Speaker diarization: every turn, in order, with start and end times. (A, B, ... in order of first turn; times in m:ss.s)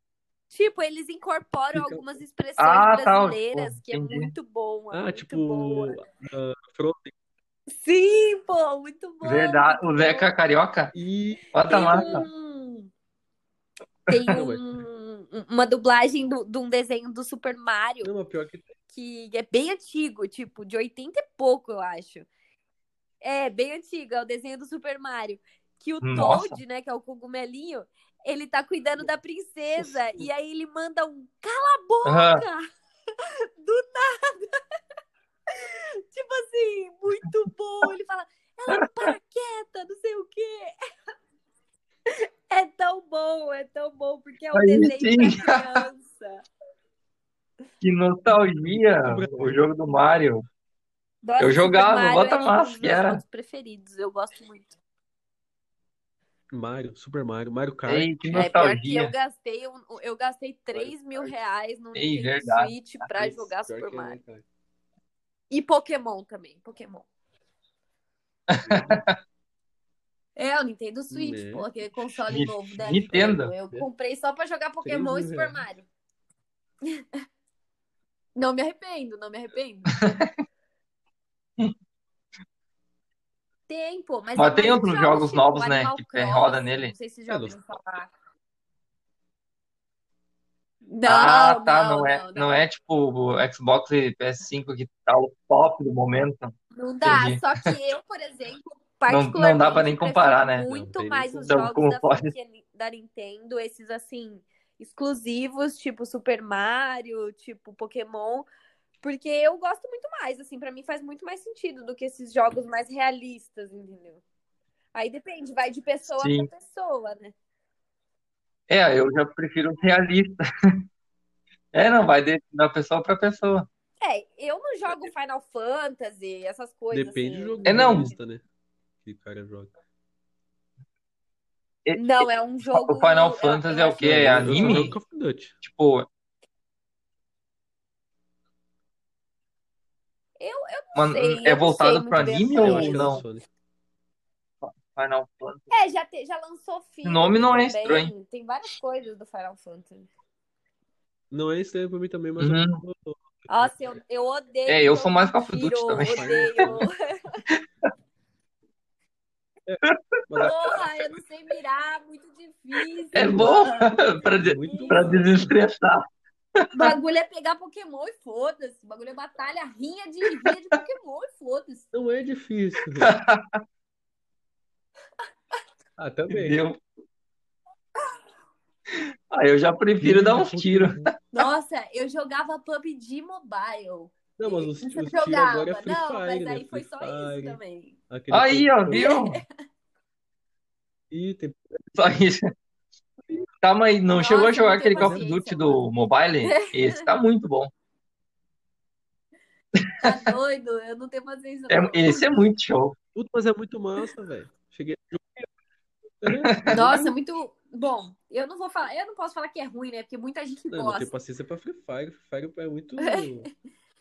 0:00.5-0:06.0 A
0:01.7-0:02.2 B
0:02.6-0:04.3 C
0:04.9-0:07.1 B
0:07.8-0:10.3 A
0:09.2-0:10.9 C
0:10.9-0:12.2 B
0:11.5-0:12.2 C
0:11.6-0:12.9 A
0:14.1-0:18.1 A
0:14.3-0:14.7 B
0:18.0-0:18.8 B
0:18.9-0:22.3 A
0:23.2-0:32.6 A
0:26.0-0:26.6 C
0:29.8-0:30.3 B
0:32.0-0:32.4 C
0:33.2-0:34.6 A
0:35.5-0:40.8 A
0:38.7-0:39.1 C
0:42.1-0:46.4 A
0:44.5-0:45.8 C
0:47.8-0:50.5 C
0:48.7-0:49.6 B
0:51.2-0:54.8 A
0:51.4-0:53.2 C
0:56.5-0:58.5 B
0:57.9-0:59.1 C
0:58.3-1:04.2 A
1:00.7-1:01.3 B
1:02.0-1:02.7 C
1:03.2-1:04.4 B
1:05.5-1:07.1 A
1:08.5-1:09.2 C
1:08.7-1:09.0 B
1:10.4-1:15.9 A
1:11.1-1:11.7 B
1:12.3-1:13.5 C
1:12.9-1:13.9 B
1:14.8-1:15.6 B
1:18.4-1:20.1 A
1:20.0-1:20.3 C
1:23.7-1:28.1 A
1:24.4-1:26.9 C
1:27.3-1:27.6 B
1:30.9-1:32.6 A
1:31.0-1:37.7 C
1:36.7-1:48.5 A
1:39.1-1:40.7 C
1:40.7-1:41.7 B
1:41.5-1:42.3 C
1:49.0-1:54.2 A
1:55.0-1:57.3 A
1:56.1-1:56.5 C
1:58.7-2:00.8 C
2:01.7-2:03.7 C
2:04.0-2:08.1 A
2:06.9-2:08.4 B
2:07.6-2:08.1 C
2:09.0-2:09.7 B
2:11.9-2:15.0 C
2:12.0-2:14.9 A
2:14.0-2:15.6 B
2:15.6-2:16.1 C
2:20.4-2:23.2 A
2:21.0-2:23.2 C
2:22.5-2:23.4 B
2:24.6-2:25.7 C
2:25.7-2:30.1 A
2:27.0-2:28.1 C
2:31.3-2:33.7 B
2:32.4-2:32.8 C
2:33.5-2:37.4 A
2:34.7-2:36.7 C
2:36.0-2:36.9 B
2:39.7-2:41.0 B
2:40.4-2:45.2 A
2:43.1-2:46.1 C
2:43.2-2:43.6 B
2:44.2-2:45.6 B
2:46.6-2:46.9 C
2:46.7-2:51.9 A
2:51.9-2:53.1 B
2:53.0-2:53.6 C
2:56.0-2:56.6 B
2:56.3-2:56.8 C
2:58.9-3:01.1 C
3:00.0-3:01.1 B
3:01.3-3:08.0 A
3:04.4-3:09.1 B
3:08.3-3:09.4 C
3:08.9-3:09.4 A
3:11.1-3:11.9 B
3:12.0-3:12.5 C
3:13.6-3:17.7 C
3:14.1-3:15.8 A
3:15.0-3:15.2 B
3:16.4-3:17.0 A
3:19.8-3:20.1 C
3:20.0-3:22.3 A
3:21.7-3:23.0 C
3:23.2-3:25.5 B
3:26.2-3:27.2 B
3:26.3-3:26.8 C
3:26.7-3:31.1 A
3:30.7-3:33.5 B
3:33.0-3:33.5 A